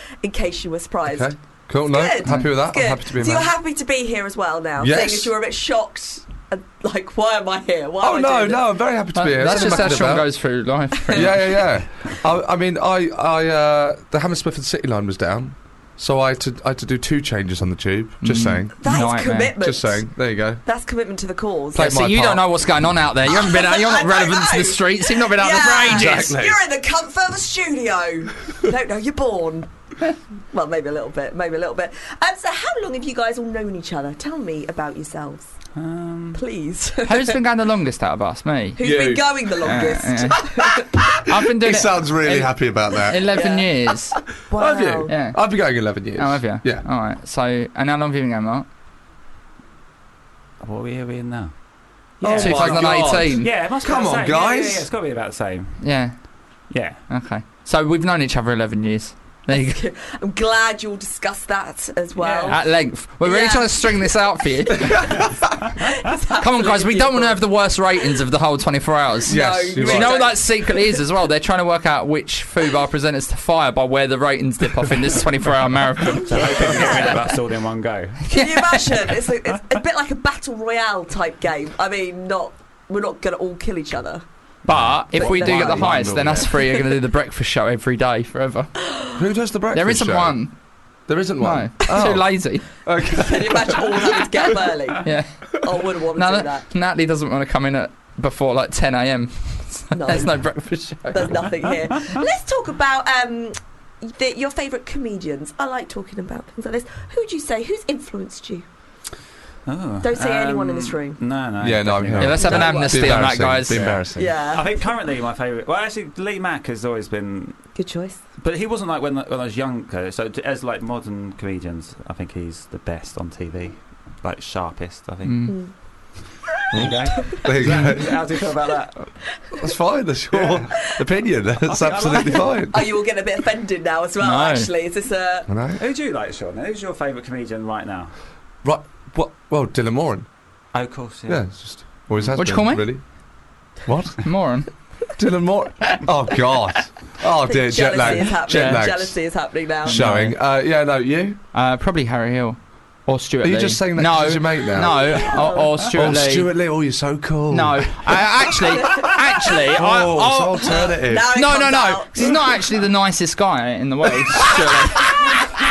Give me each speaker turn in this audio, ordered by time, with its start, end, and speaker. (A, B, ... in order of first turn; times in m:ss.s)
0:00.2-0:01.3 A
0:01.1-0:03.5 B
0:01.8-0:08.7 A
0:04.8-0:05.3 B
0:08.0-0:10.5 B
0:09.1-0:11.7 C
0:09.4-0:10.1 A
0:11.0-0:11.2 A
0:11.1-0:18.8 B
0:18.2-0:19.6 C
0:18.8-0:21.9 A
0:19.6-0:20.6 B
0:21.7-0:22.6 B
0:21.7-0:26.4 C
0:23.3-0:29.7 A
0:25.8-0:26.6 B
0:30.5-0:35.5 A
0:35.8-0:36.4 D
0:36.3-0:37.4 A
0:37.0-0:38.8 C
0:38.8-0:40.9 A
0:38.8-0:39.4 B
0:39.5-0:44.2 C
0:41.4-0:43.2 B
0:43.3-0:45.1 A
0:44.5-0:46.9 B
0:45.1-0:48.6 C
0:50.6-0:51.6 D
0:52.2-0:55.8 D
0:52.2-0:54.9 B
0:52.3-0:53.5 C
0:55.8-0:56.3 C
0:56.7-0:57.0 D
0:57.1-0:59.8 C
0:59.5-1:02.6 A
1:02.2-1:02.6 D
1:02.5-1:05.2 C
1:03.2-1:03.9 A
1:04.9-1:05.4 B
1:05.8-1:07.4 A
1:06.4-1:17.1 C
1:09.2-1:10.3 B
1:09.3-1:11.0 A
1:16.2-1:17.3 A
1:16.2-1:18.3 D
1:18.3-1:18.8 C
1:18.3-1:24.2 A
1:24.6-1:29.0 C
1:24.7-1:26.5 B
1:25.1-1:26.5 D
1:25.2-1:25.6 A
1:29.2-1:30.4 B
1:29.7-1:30.6 C
1:31.0-1:34.0 B
1:31.4-1:32.9 C
1:33.1-1:36.6 A
1:35.0-1:35.6 C
1:36.1-1:41.5 C
1:39.9-1:48.6 A
1:49.6-1:57.7 D
1:50.0-1:51.2 A
1:51.6-1:54.3 B
1:52.2-1:54.0 C
1:52.4-1:53.2 A
1:54.1-1:54.8 A
1:57.7-1:58.2 A
1:58.4-2:05.6 D
2:05.2-2:05.7 C
2:05.5-2:05.7 A
2:06.7-2:08.2 B
2:06.7-2:09.1 D
2:09.6-2:12.8 B
2:10.3-2:10.7 D
2:11.6-2:12.7 D
2:12.7-2:15.5 A
2:14.2-2:14.7 C
2:15.5-2:15.8 B
2:15.8-2:18.1 D
2:18.6-2:20.3 B
2:20.7-2:21.5 D
2:21.3-2:23.1 B
2:22.3-2:23.0 C
2:23.8-2:24.2 B
2:24.2-2:24.8 C
2:25.2-2:29.3 B
2:27.5-2:30.0 A
2:28.0-2:28.9 C
2:29.8-2:30.4 C
2:29.8-2:31.4 B
2:31.5-2:36.6 C
2:33.4-2:38.2 B
2:35.3-2:35.7 A
2:37.5-2:45.4 C
2:39.7-2:41.3 B
2:40.6-2:42.5 A
2:44.0-2:45.2 B